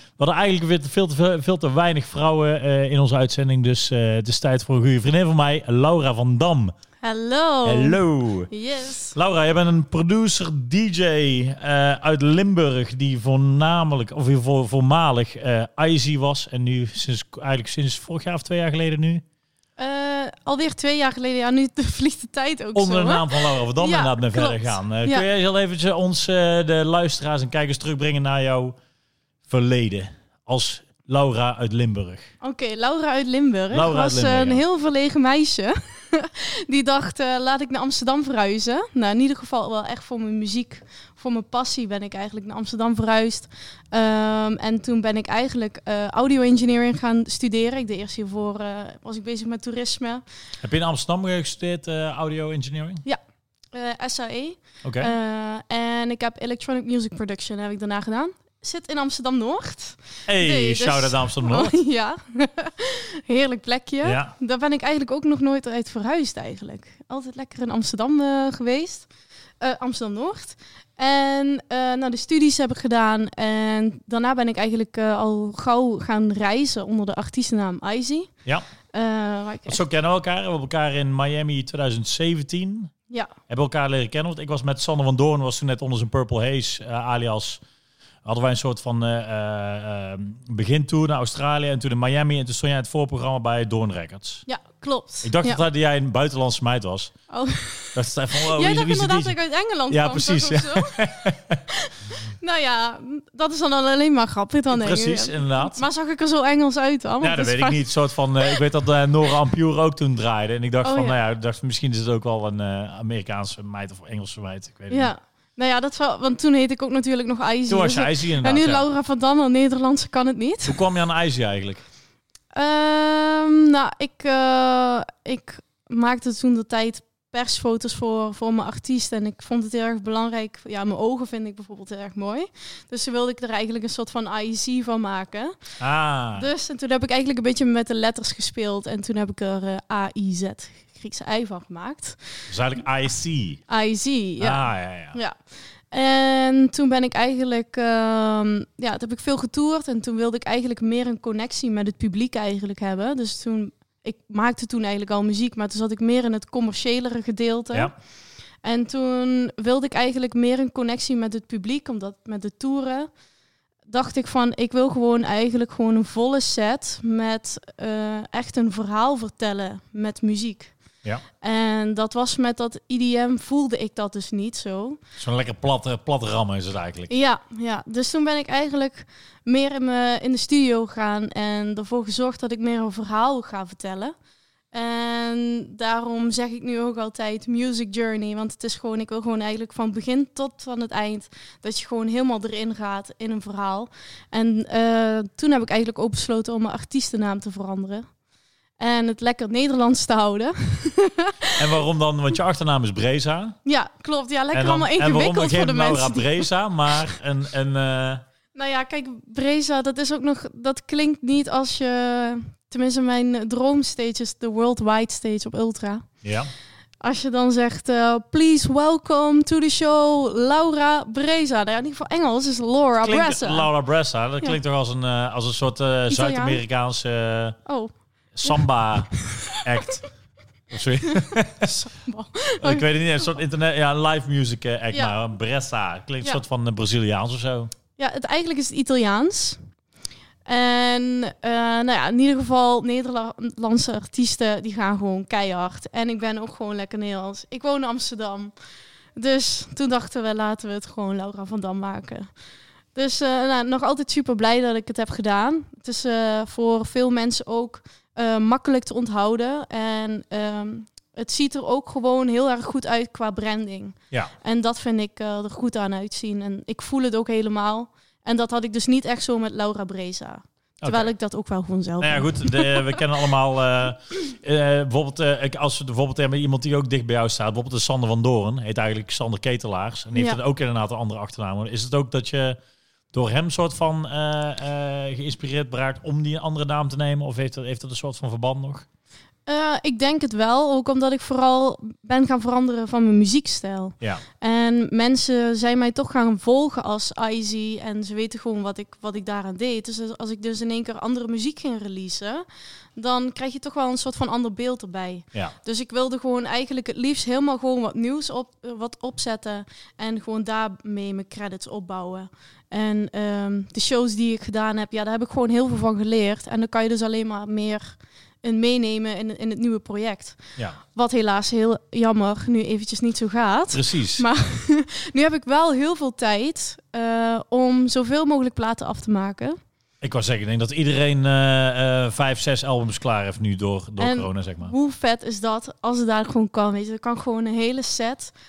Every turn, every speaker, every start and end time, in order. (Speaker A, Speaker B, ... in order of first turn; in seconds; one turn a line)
Speaker A: 0.2-6.7
Speaker B: 7.0-9.2
Speaker A: 7.6-8.5
Speaker A: 9.1-19.2
Speaker B: 19.8-25.3
Speaker A: 22.7-28.8
Speaker A: 29.5-32.3
Speaker B: 32.4-50.2
Speaker A: 33.7-34.6
Speaker A: 50.6-53.0
Speaker B: 53.7-69.1
Speaker A: 54.8-55.1
Speaker A: 60.3-61.7
Speaker A: 64.0-64.3
Speaker B: 69.6-78.3
Speaker B: 78.9-79.8
Speaker A: 79.7-82.9
Speaker A: 83.5-87.6
Speaker A: 88.2-94.4
Speaker B: 94.5-95.6
Speaker A: 95.2-97.1
Speaker B: 97.3-101.1
Speaker A: 97.9-99.3
Speaker A: 99.9-101.6
Speaker B: 101.7-107.8
Speaker A: 104.7-105.8
Speaker A: 107.2-115.1
Speaker B: 110.8-111.2
Speaker B: 114.9-120.8
Speaker A: 117.7-118.8
Speaker A: 120.7-121.8
Speaker B: 122.5-135.6
Speaker A: 135.8-136.5
Speaker B: 136.4-142.4
Speaker A: 142.5-143.6
Speaker B: 143.7-145.4
Speaker A: 144.4-145.2
Speaker B: 145.9-157.9
Speaker B: 158.6-163.1
Speaker B: 163.9-170.7
Speaker B: 171.4-175.0
Speaker A: 175.2-177.1
Speaker B: 177.1-184.1
Speaker B: 184.7-198.1
Speaker B: 198.8-201.7
Speaker A: 201.6-203.6
Speaker B: 203.7-206.5
Speaker A: 204.5-208.2
Speaker B: 208.5-216.1
Speaker A: 216.2-216.5
Speaker B: 217.0-223.7
Speaker A: 223.0-227.6
Speaker B: 226.1-226.6
Speaker B: 227.7-227.9
Speaker A: 228.3-230.1
Speaker B: 228.4-230.0
Speaker A: 230.7-231.8
Speaker B: 231.1-232.9
Speaker A: 232.6-237.7
Speaker B: 234.9-235.2
Speaker B: 238.0-239.6
Speaker B: 240.4-248.5
Speaker B: 249.1-252.3
Speaker B: 252.9-273.0
Speaker A: 270.8-271.1
Speaker A: 272.0-282.6
Speaker A: 283.1-288.9
Speaker B: 289.4-302.4
Speaker B: 302.9-329.6
Speaker A: 323.7-324.2
Speaker A: 330.0-334.7
Speaker B: 334.0-338.3